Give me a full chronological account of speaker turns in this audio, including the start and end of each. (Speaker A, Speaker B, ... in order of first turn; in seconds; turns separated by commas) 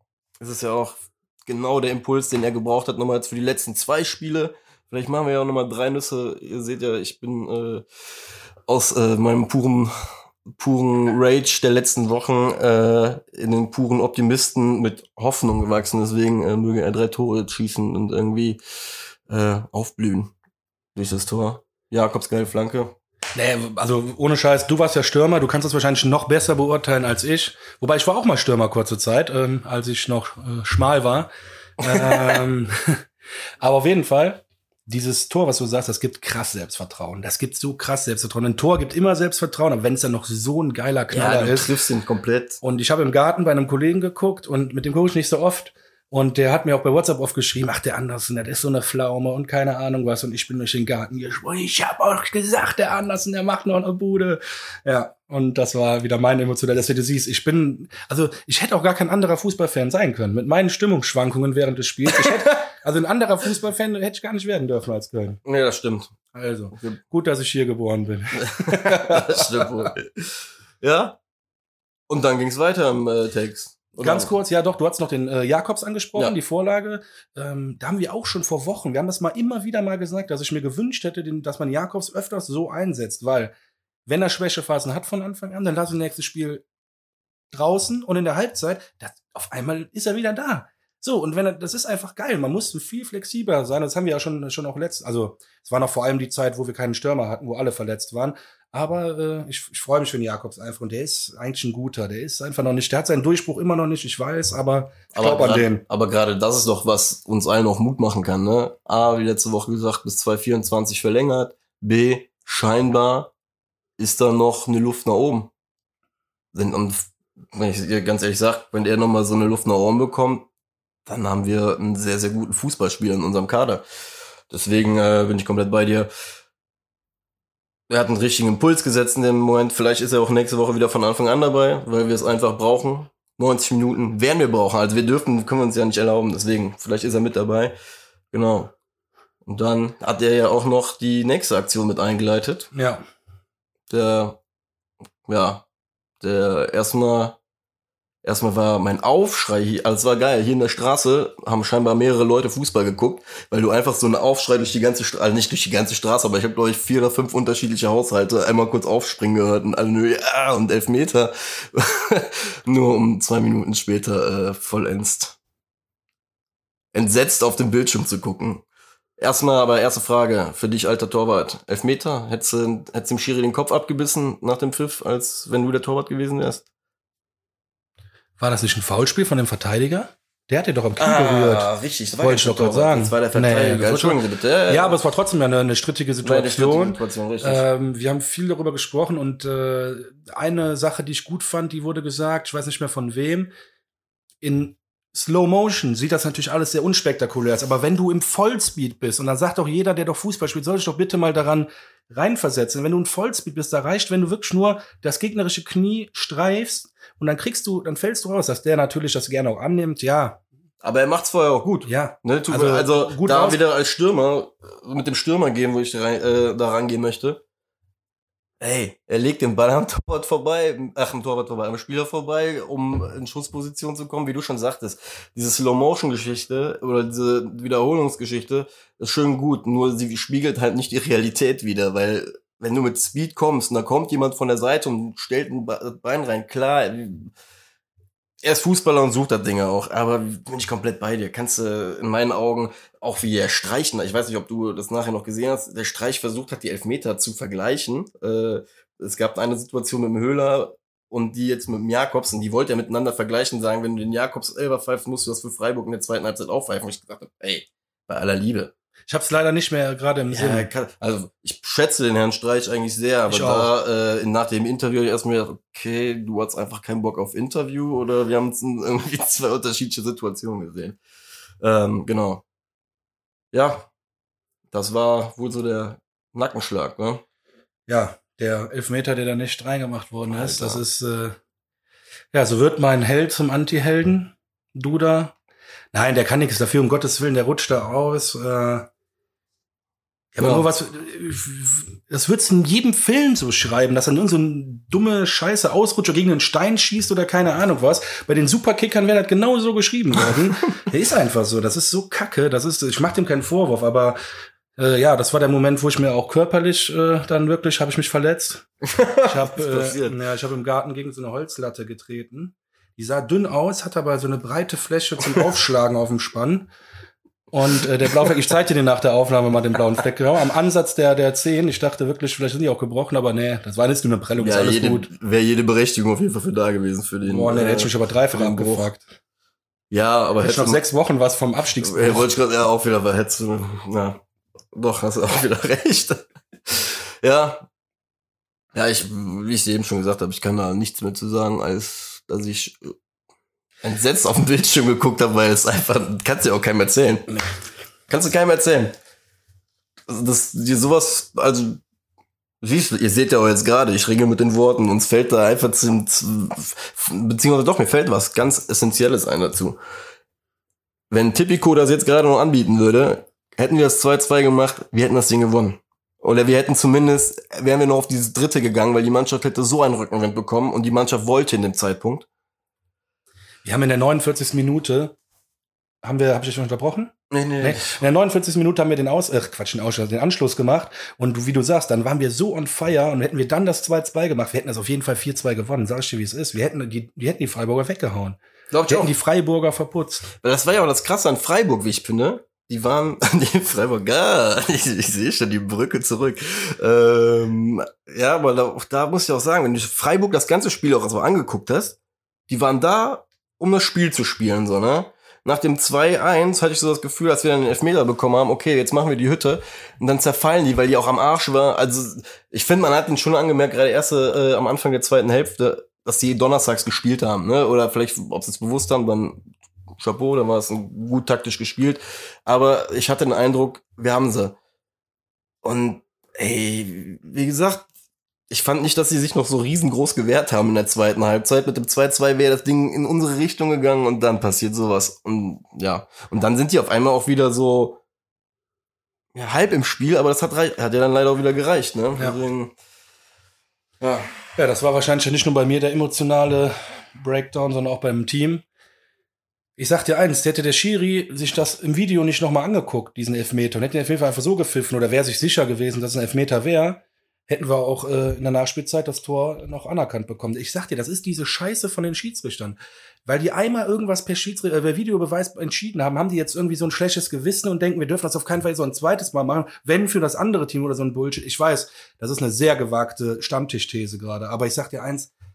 Speaker A: 0.4-7.8, Speaker A: 8.7-18.6, Speaker A: 19.3-20.3, Speaker A: 20.9-22.9, Speaker B: 23.4-33.0, Speaker A: 31.9-32.4, Speaker B: 33.6-41.7, Speaker A: 41.1-42.6, Speaker B: 42.6-65.4, Speaker A: 62.1-62.4, Speaker A: 65.5-66.1, Speaker B: 66.3-69.9, Speaker A: 68.5-70.3, Speaker A: 70.8-71.2, Speaker A: 72.1-74.3, Speaker B: 74.0-83.5, Speaker B: 84.1-86.6, Speaker B: 87.5-105.8, Speaker A: 105.1-113.3, Speaker A: 114.0-115.5, Speaker A: 116.5-120.5, Speaker A: 121.1-123.8, Speaker A: 124.5-126.1, Speaker A: 127.9-137.8, Speaker A: 138.3-138.7, Speaker A: 139.4-142.7, Speaker B: 142.7-143.0, Speaker A: 143.9-144.4, Speaker A: 145.3-145.7, Speaker A: 146.2-147.4, Speaker A: 148.2-165.4, Speaker A: 166.9-168.6, Speaker A: 169.2-176.6, Speaker B: 178.4-193.5, Speaker A: 181.0-185.0, Speaker A: 186.2-187.7, Speaker B: 194.4-210.4, Speaker A: 210.8-217.4, Speaker B: 211.9-213.6, Speaker A: 218.6-237.3, Speaker A: 238.4-258.7, Speaker B: 259.1-260.7, Speaker A: 260.3-271.0, Speaker B: 263.3-263.7, Speaker A: 271.6-272.4, Speaker A: 273.5-273.9, Speaker A: 274.7-277.2, Speaker B: 277.9-281.4, Speaker A: 280.3-280.8, Speaker B: 282.3-285.4, Speaker B: 285.9-288.9, Speaker B: 290.4-304.2, Speaker A: 290.4-290.6, Speaker A: 300.2-300.8, Speaker B: 304.8-308.7, Speaker A: 308.9-310.1, Speaker B: 309.2-316.7, Speaker B: 317.5-325.1, Speaker A: 324.4-328.9, Speaker B: 327.2-329.1, Speaker A: 329.9-330.8, Speaker B: 330.4-332.3, Speaker A: 331.8-334.2, Speaker A: 334.7-337.7, Speaker A: 338.7-342.9, Speaker A: 343.8-347.4, Speaker A: 348.1-348.9, Speaker A: 350.1-351.8, Speaker A: 352.6-359.8, Speaker A: 361.1-372.2, Speaker B: 373.6-375.1, Speaker B: 376.0-390.3, Speaker A: 377.3-378.0, Speaker A: 388.7-389.1, Speaker A: 390.4-402.0, Speaker A: 402.5-419.4, Speaker A: 420.0-424.6, Speaker A: 425.6-427.9, Speaker A: 428.5-438.0, Speaker A: 439.4-442.7, Speaker A: 444.0-444.4, Speaker B: 444.6-448.6, Speaker B: 449.8-475.3